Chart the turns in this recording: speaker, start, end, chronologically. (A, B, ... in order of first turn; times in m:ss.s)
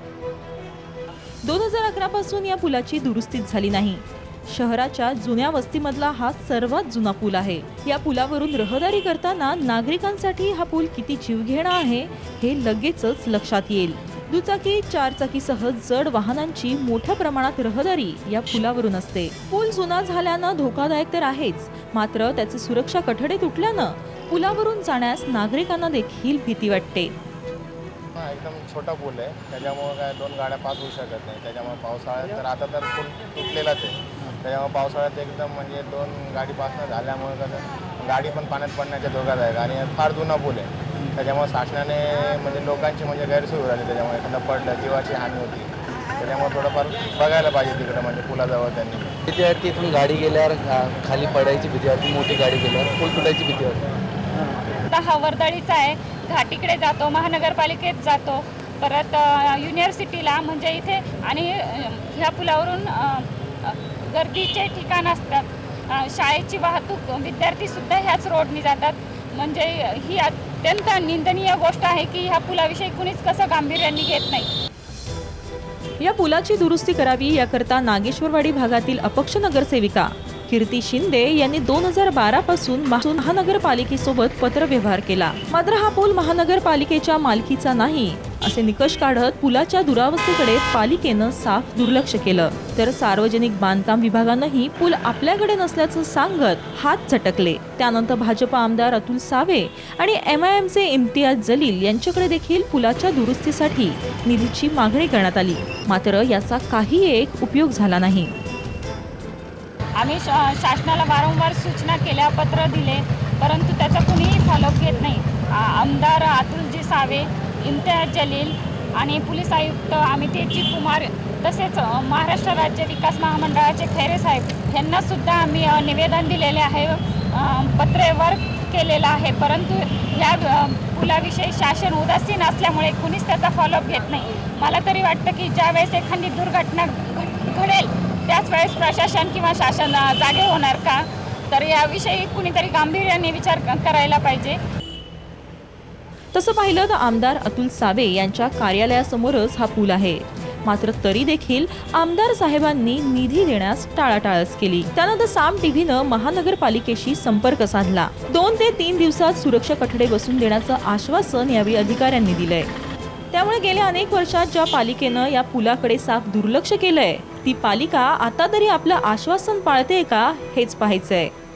0:01.4-0:27.1 A
0:28.2-0:49.2 B
0:49.3-0:53.8 C
0:54.9-1:14.5 D
1:16.0-1:48.3 A
1:50.0-2:24.6 D
2:26.3-2:42.7 A
2:43.3-2:51.3 A